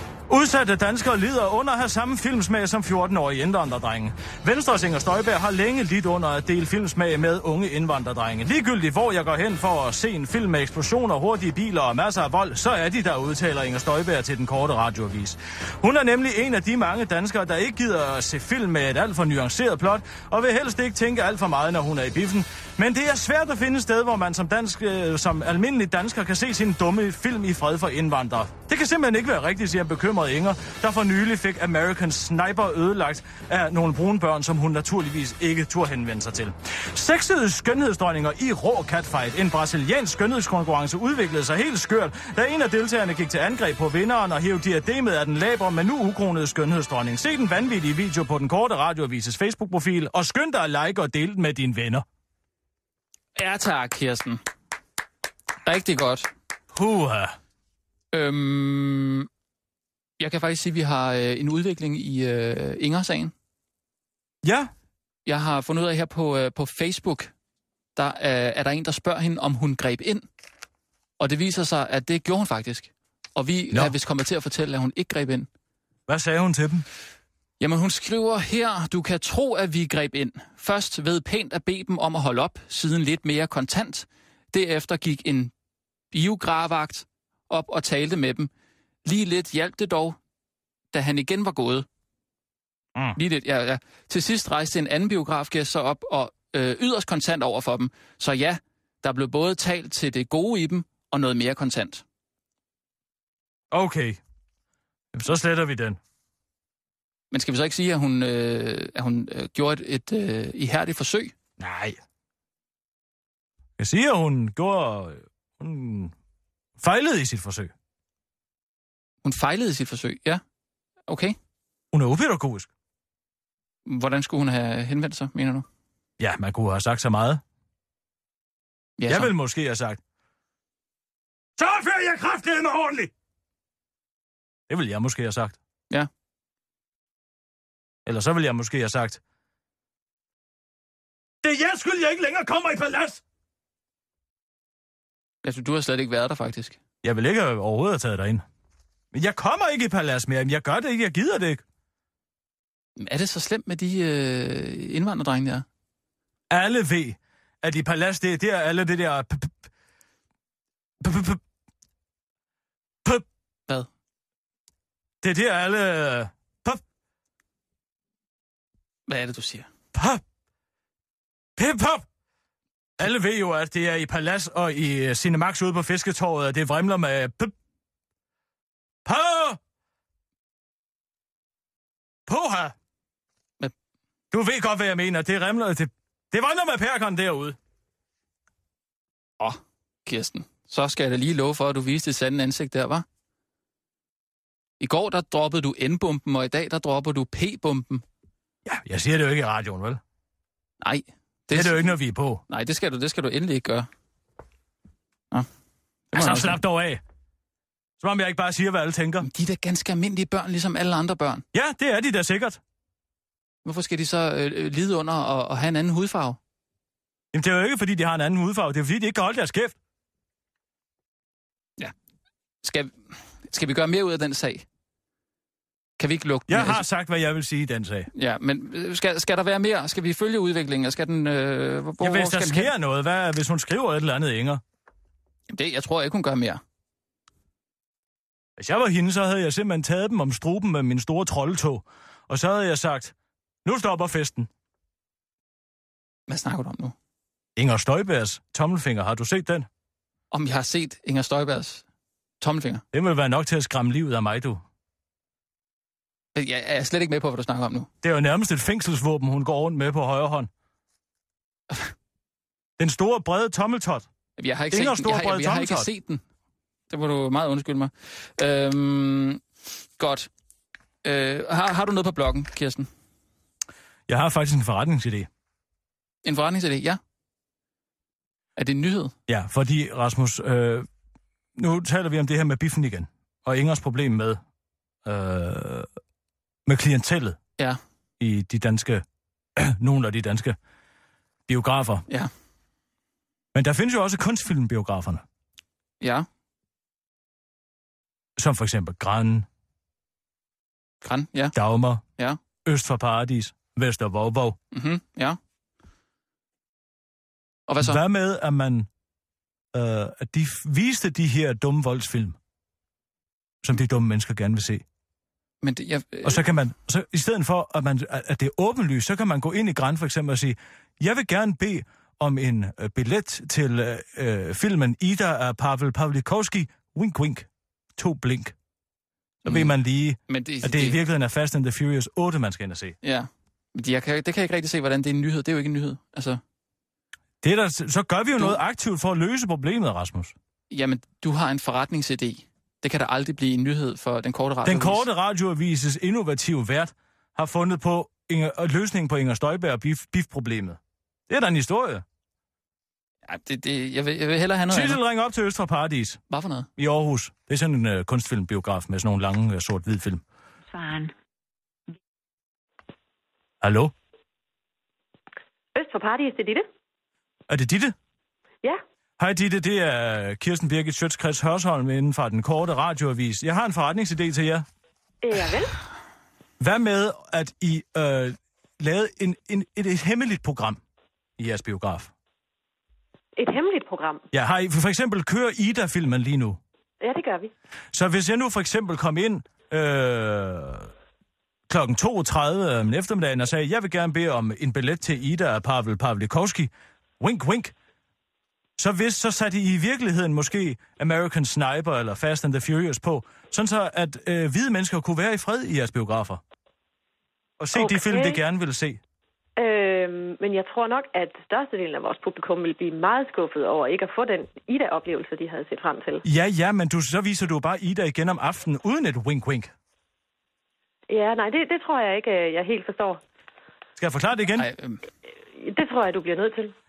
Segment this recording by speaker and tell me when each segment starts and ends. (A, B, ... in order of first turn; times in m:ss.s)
0:00.3-0:52.0 A
0:53.4-0:54.4 B
0:55.6-0:56.3 B
0:56.7-0:57.4 A
0:58.1-0:59.3 B
1:00.2-1:03.3 B
1:04.4-1:04.7 A
1:05.2-1:07.3 B
1:08.0-1:10.3 B
1:11.2-1:15.5 B
1:16.1-1:16.8 A
1:17.6-1:25.5 B
1:26.1-1:28.5 B
1:29.1-1:30.2 B
1:30.9-1:31.9 B
1:33.1-1:42.0 B
1:43.7-1:44.2 A
1:45.1-1:46.0 A
1:47.3-1:51.3 B
1:51.6-1:52.0 A
1:53.8-1:56.1 A
1:56.8-1:57.7 A
1:59.2-2:00.4 B
2:01.1-2:01.4 B
2:01.9-2:02.7 A
2:03.9-2:05.6 B
2:06.2-2:07.4 A
2:09.0-2:09.3 B
2:09.1-2:10.0 A
2:11.6-2:13.1 A
2:14.7-2:15.6 A
2:18.1-2:19.2 A
2:21.4-2:23.2 A
2:25.4-2:26.8 B
2:27.0-2:28.4 A
2:29.1-2:31.6 A
2:33.0-2:35.6 B
2:36.5-2:39.6 A
2:41.0-2:41.4 A
2:45.2-2:46.8 A
2:49.1-2:49.7 B
2:49.9-2:50.2 A
2:51.6-2:52.1 A
2:53.0-2:57.5 A
2:59.0-2:59.6 A
3:02.3-3:02.8 A
3:04.3-3:07.6 A
3:09.4-3:13.0 B
3:14.8-3:18.0 B
3:18.6-3:20.0 A
3:20.8-3:21.9 B
3:21.5-3:22.4 A
3:22.5-3:23.9 B
3:26.1-3:26.6 B
3:26.1-3:27.0 A
3:28.0-3:29.3 A
3:29.2-3:31.4 B
3:31.5-3:32.6 A
3:33.6-3:36.4 B
3:37.3-3:39.8 A
3:42.6-3:44.6 B
3:46.0-3:46.8 B
3:46.5-3:48.1 A
3:48.1-3:52.7 B
3:52.0-3:54.6 A
3:55.5-3:56.6 B
3:58.6-4:03.1 A
4:03.6-4:04.5 A
4:06.3-4:06.9 B
4:07.6-4:09.7 A
4:10.3-4:11.8 B
4:12.4-4:12.8 B
4:12.9-4:14.6 A
4:16.4-4:17.9 B
4:18.0-4:20.5 A
4:22.8-4:24.1 A
4:24.4-4:26.2 B
4:24.7-4:25.9 A
4:26.9-4:29.4 B
4:30.0-4:30.3 B
4:31.0-4:32.9 B
4:34.1-4:35.3 A
4:36.2-4:37.0 B
4:38.6-4:39.1 B
4:39.3-4:40.9 A
4:41.6-4:44.4 A
4:45.0-4:45.9 A
4:46.6-4:47.4 A
4:48.2-4:49.0 A
4:49.6-4:50.6 A
4:51.5-4:52.1 A
4:53.5-4:55.2 A
4:56.0-4:56.3 B
4:58.4-4:59.5 A
5:01.0-5:01.6 B
5:01.5-5:02.0 A
5:02.6-5:04.6 A
5:04.7-5:05.4 B
5:07.7-5:08.0 B
5:07.8-5:08.9 A
5:09.7-5:12.4 A
5:13.6-5:14.8 A
5:15.6-5:16.4 B
5:16.2-5:28.6 A
5:29.4-5:33.0 A
5:29.4-5:29.7 B
5:30.3-5:31.0 B
5:33.0-5:36.4 B
5:37.4-5:40.3 A
5:40.7-5:45.1 B
5:44.6-5:52.0 A
5:53.3-5:55.0 B
5:54.7-5:56.2 A
5:56.3-5:56.7 B
5:56.8-6:00.2 A
6:03.6-6:03.9 A
6:05.8-6:06.6 C
6:07.5-6:07.9 A
6:09.2-6:14.6 A
6:15.2-6:15.8 C
6:16.6-6:20.8 A
6:21.4-6:22.1 A
6:23.4-6:24.2 C
6:24.3-6:26.6 A
6:27.0-6:27.5 C
6:27.9-6:30.9 A
6:31.7-6:37.7 A
6:38.8-6:46.4 A
6:47.6-6:49.0 A
6:47.7-6:48.4 C
6:49.6-6:56.2 C
6:56.2-6:59.7 A
7:01.1-7:03.2 C
7:04.0-7:04.7 A
7:04.6-7:05.0 B
7:05.5-7:06.7 C